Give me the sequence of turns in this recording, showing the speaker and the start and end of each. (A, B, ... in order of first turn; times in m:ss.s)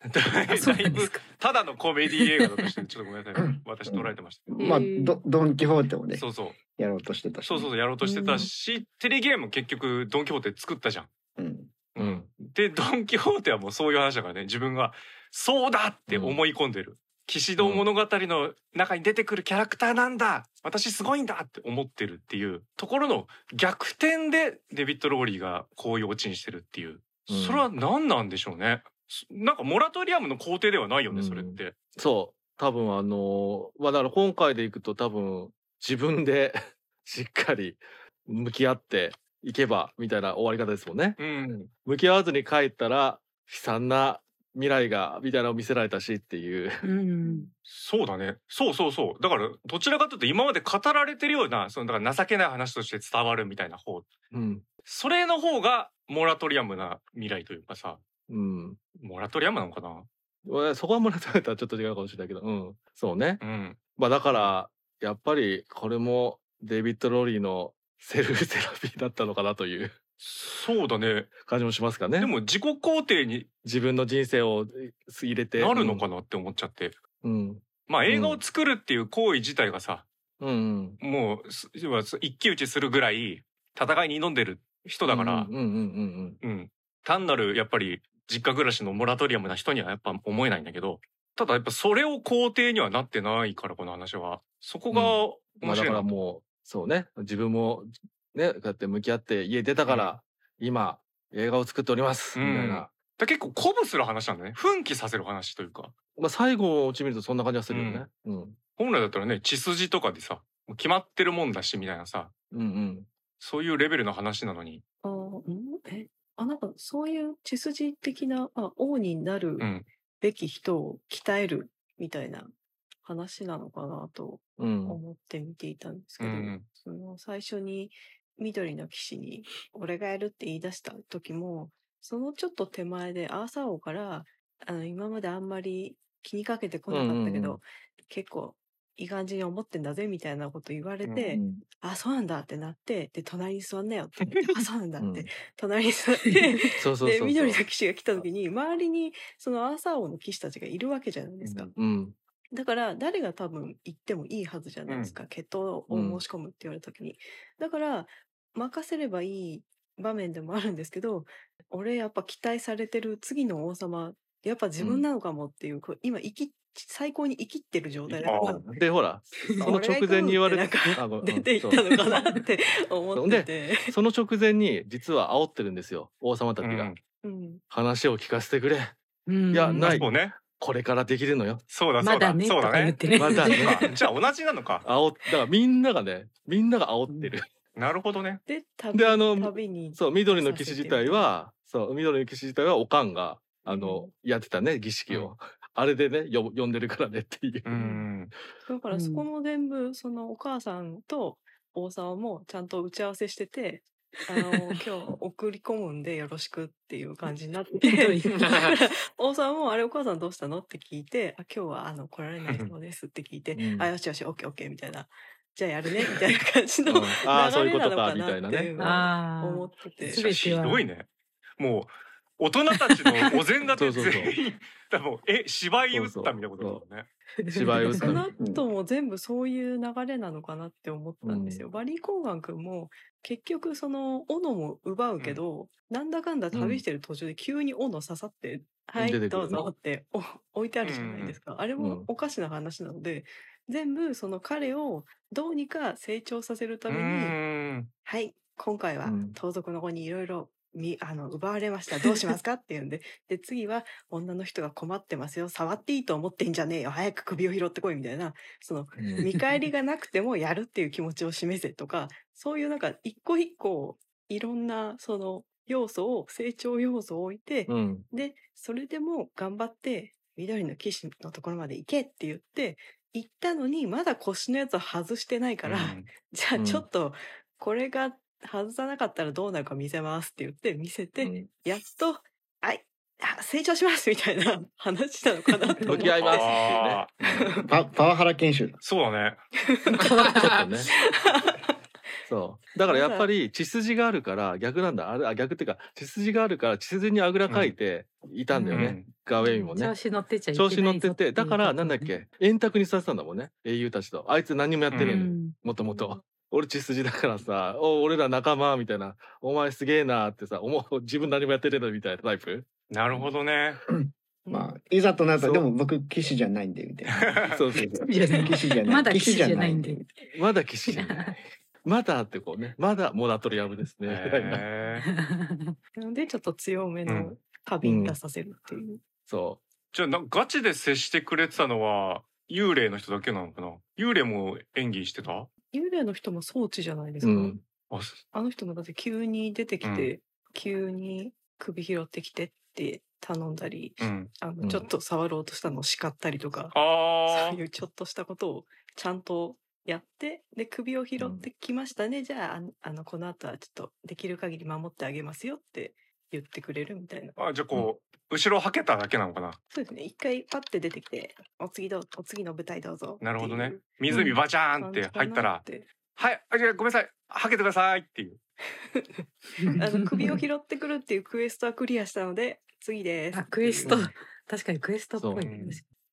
0:00.1-0:04.5 A
0:00.5-0:01.2 B
0:03.4-0:07.7 C
0:04.6-0:05.2 B
0:06.1-0:06.6 A
0:07.4-0:11.1 A
0:08.0-0:08.4 B
0:11.4-0:11.7 C
0:11.9-0:31.8 A
0:12.0-0:12.3 D
0:16.1-0:16.4 D
0:17.6-0:17.9 D
0:27.3-0:27.7 D
0:31.1-0:41.2 D
0:41.2-0:41.7 A
0:41.7-0:46.8 D
0:46.8-0:47.5 B
0:47.6-0:54.1 A
0:54.3-0:54.7 D
0:54.8-0:58.0 A
0:58.3-0:58.8 D
0:59.0-1:00.1 A
1:00.4-1:10.2 D
1:03.4-1:04.6 A
1:10.3-1:11.3 A
1:11.3-1:12.3 D
1:12.2-1:13.5 A
1:13.6-1:16.0 D
1:15.6-1:17.0 A
1:17.2-1:18.4 D
1:17.9-1:20.1 A
1:20.4-1:21.0 D
1:21.0-1:25.5 A
1:25.0-1:26.4 D
1:26.4-1:36.1 A
1:34.9-1:42.9 D
1:39.9-1:40.1 A
1:42.4-1:45.9 A
1:46.1-1:48.6 D
1:47.7-1:48.0 A
1:48.8-1:52.3 A
1:52.5-1:53.1 D
1:53.4-1:54.8 A
1:55.0-1:59.7 E
1:59.6-1:59.9 A
2:00.2-2:02.5 E
2:03.0-2:31.7 E
2:04.6-2:05.0 D
2:06.2-2:06.7 A
2:16.9-2:17.6 D
2:21.2-2:21.6 D
2:25.0-2:25.3 D
2:26.8-2:27.6 D
2:31.5-2:32.2 D
2:32.5-2:48.7 E
2:34.9-2:35.2 A
2:35.9-2:36.2 D
2:44.8-2:45.0 D
2:48.1-2:52.0 D
2:48.2-2:48.6 A
2:49.4-2:54.0 E
2:53.1-2:56.9 D
2:56.6-2:57.0 A
2:57.2-2:57.6 E
2:57.7-2:58.9 D
2:59.3-3:00.1 B
2:59.5-3:01.6 D
2:59.8-3:00.4 A
3:01.7-3:04.8 A
3:02.0-3:03.6 B
3:03.1-3:04.0 E
3:03.2-3:03.8 D
3:04.8-3:07.5 D
3:07.1-3:07.3 B
3:07.7-3:08.4 A
3:08.4-3:11.3 E
3:08.9-3:17.8 D
3:13.7-3:14.1 E
3:17.6-3:18.3 A
3:18.6-3:40.3 E
3:18.9-3:19.3 B
3:24.3-3:24.7 B
3:27.8-3:28.4 B
3:32.4-3:32.7 A
3:33.5-3:33.9 D
3:36.9-3:38.7 D
3:38.8-3:40.9 B
3:40.0-3:47.1 A
3:43.0-3:43.3 B
3:43.7-3:44.3 D
3:45.9-3:46.8 D
3:47.4-3:48.2 B
3:47.5-3:48.3 D
3:47.9-4:07.4 E
3:48.4-3:48.6 C
3:51.2-3:51.6 D
3:56.5-3:56.8 D
3:59.0-3:59.7 D
4:00.8-4:01.4 A
4:01.8-4:02.1 D
4:06.9-4:07.9 A
4:08.0-4:47.7 E
4:09.0-4:09.4 D
4:19.0-4:19.3 D
4:27.7-4:28.1 D
4:35.6-4:36.1 A
4:36.6-4:36.9 D
4:41.2-4:41.5 D
4:45.8-4:47.5 D
4:45.9-4:47.1 A
4:47.7-4:48.8 C
4:48.8-4:49.4 A
4:49.6-4:51.7 E
4:50.3-4:50.9 D
4:52.3-5:00.0 D
4:52.8-4:53.3 E
4:57.5-4:57.7 A
4:58.5-5:02.2 B
4:58.7-4:59.1 A
4:59.4-4:59.7 E
5:00.5-5:12.7 D
5:04.9-5:05.2 A
5:05.0-5:05.5 B
5:05.7-5:06.2 E
5:12.9-5:13.8 A
5:14.4-5:14.7 E
5:14.5-5:20.1 C
5:15.4-5:15.6 D
5:17.2-5:17.5 A
5:17.5-5:18.0 D
5:18.0-5:20.0 B
5:20.3-5:24.6 D
5:20.9-5:21.3 B
5:24.0-5:25.0 A
5:25.0-5:25.8 B
5:26.0-5:29.1 E
5:27.0-5:27.4 A
5:27.8-5:28.2 D
5:29.2-5:29.6 D
5:29.9-5:35.5 A
5:35.7-5:37.6 E
5:37.2-5:37.6 D
5:37.9-5:38.2 A
5:38.3-5:46.8 E
5:39.8-5:40.1 A
5:44.0-5:44.3 A
5:44.6-5:44.9 D
5:46.7-5:47.6 A
5:47.3-5:57.4 E
5:51.2-5:51.4 D
5:57.4-5:59.6 A
5:59.7-6:05.9 E
6:03.2-6:08.4 A
6:04.1-6:04.4 D
6:08.9-6:14.1 E
6:09.6-6:10.4 B
6:13.3-6:15.9 B
6:13.8-6:14.1 D
6:15.2-6:15.5 D
6:15.4-6:15.8 A